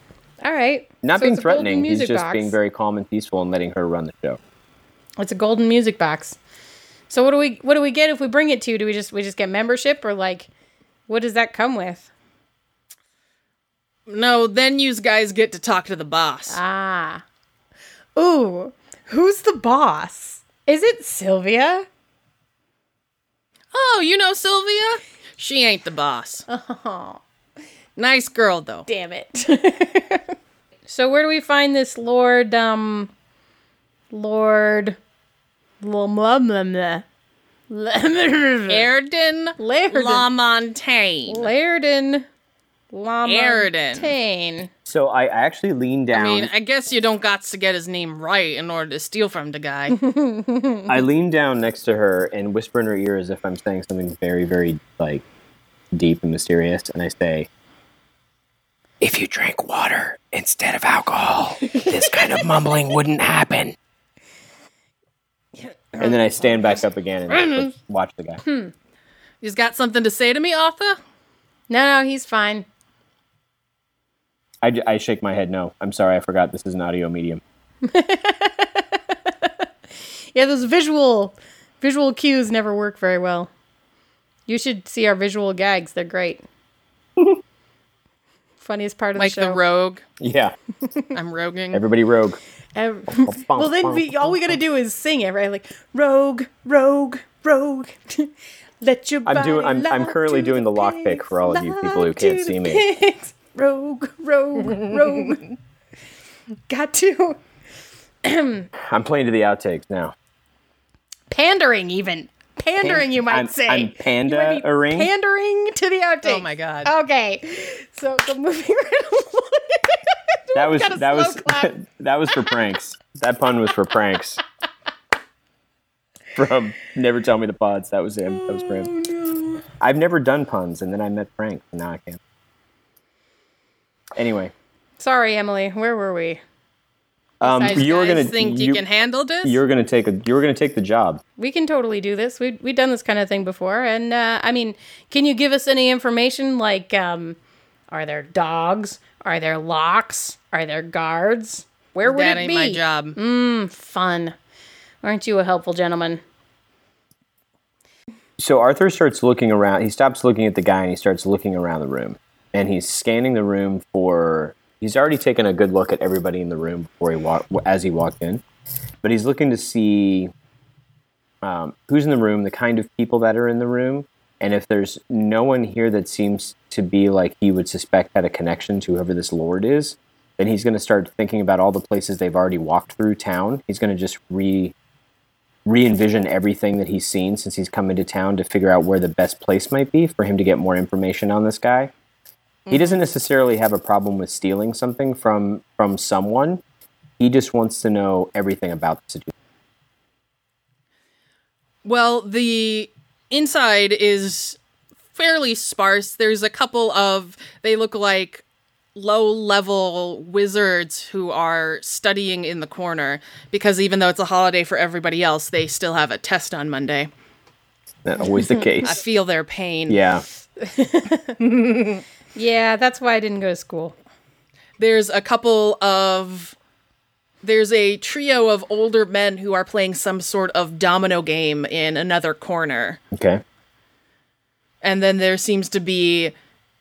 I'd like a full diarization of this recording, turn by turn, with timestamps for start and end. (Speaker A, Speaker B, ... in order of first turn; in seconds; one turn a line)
Speaker A: 0.4-2.5
Speaker B: 1.0-4.4
Speaker A: 5.2-6.4
Speaker A: 7.1-10.5
Speaker A: 11.1-12.1
Speaker C: 14.1-16.6
Speaker A: 16.5-17.2
Speaker A: 18.1-21.9
Speaker C: 23.7-26.4
Speaker A: 26.5-27.2
Speaker C: 27.9-28.9
Speaker A: 28.9-30.3
Speaker A: 30.9-33.1
Speaker A: 34.1-35.0
Speaker A: 35.8-37.0
Speaker A: 37.7-38.9
Speaker C: 38.7-41.5
Speaker A: 39.6-40.3
Speaker A: 41.3-42.2
Speaker A: 42.9-44.7
Speaker C: 43.2-44.1
Speaker B: 44.9-46.5
Speaker C: 46.1-50.0
Speaker A: 49.9-50.9
Speaker B: 50.9-55.2
Speaker B: 55.9-57.5
Speaker B: 59.0-63.8
Speaker A: 65.6-66.8
Speaker B: 66.0-68.4
Speaker A: 67.4-67.6
Speaker A: 68.4-68.7
Speaker C: 69.4-71.0
Speaker A: 71.7-72.6
Speaker B: 74.6-77.4
Speaker A: 77.8-79.5
Speaker A: 80.3-83.5
Speaker A: 84.5-86.4
Speaker A: 88.6-89.6
Speaker C: 89.2-90.0
Speaker B: 90.2-90.5
Speaker C: 91.1-91.8
Speaker B: 91.7-92.4
Speaker A: 92.7-105.5
Speaker B: 93.1-94.6
Speaker B: 99.2-102.8
Speaker A: 106.7-107.4
Speaker A: 108.2-108.7
Speaker B: 108.8-110.1
Speaker A: 111.3-121.7
Speaker B: 112.8-115.1
Speaker C: 116.2-116.9
Speaker B: 120.5-124.4
Speaker B: 126.3-128.9
Speaker A: 128.3-129.6
Speaker B: 129.8-132.2
Speaker B: 134.1-134.5
Speaker A: 135.0-136.4
Speaker B: 137.4-138.8
Speaker A: 137.4-137.9
Speaker C: 137.5-139.6
Speaker B: 139.4-141.2
Speaker A: 141.4-147.4
Speaker A: 147.9-154.3
Speaker C: 152.0-153.2
Speaker A: 155.0-156.2
Speaker B: 158.4-168.4
Speaker B: 169.0-170.3
Speaker B: 171.4-184.7
Speaker B: 185.6-191.9
Speaker C: 192.7-193.0
Speaker B: 192.7-196.6
Speaker B: 197.2-199.3
Speaker C: 201.8-204.6
Speaker C: 205.1-208.4
Speaker C: 208.9-217.1
Speaker B: 218.0-219.0
Speaker A: 218.3-218.7
Speaker C: 218.8-220.0
Speaker B: 219.9-220.2
Speaker A: 220.6-221.4
Speaker C: 221.4-222.0
Speaker A: 222.3-223.9
Speaker C: 224.8-226.5
Speaker C: 227.4-233.0
Speaker B: 233.1-233.4
Speaker C: 234.8-236.3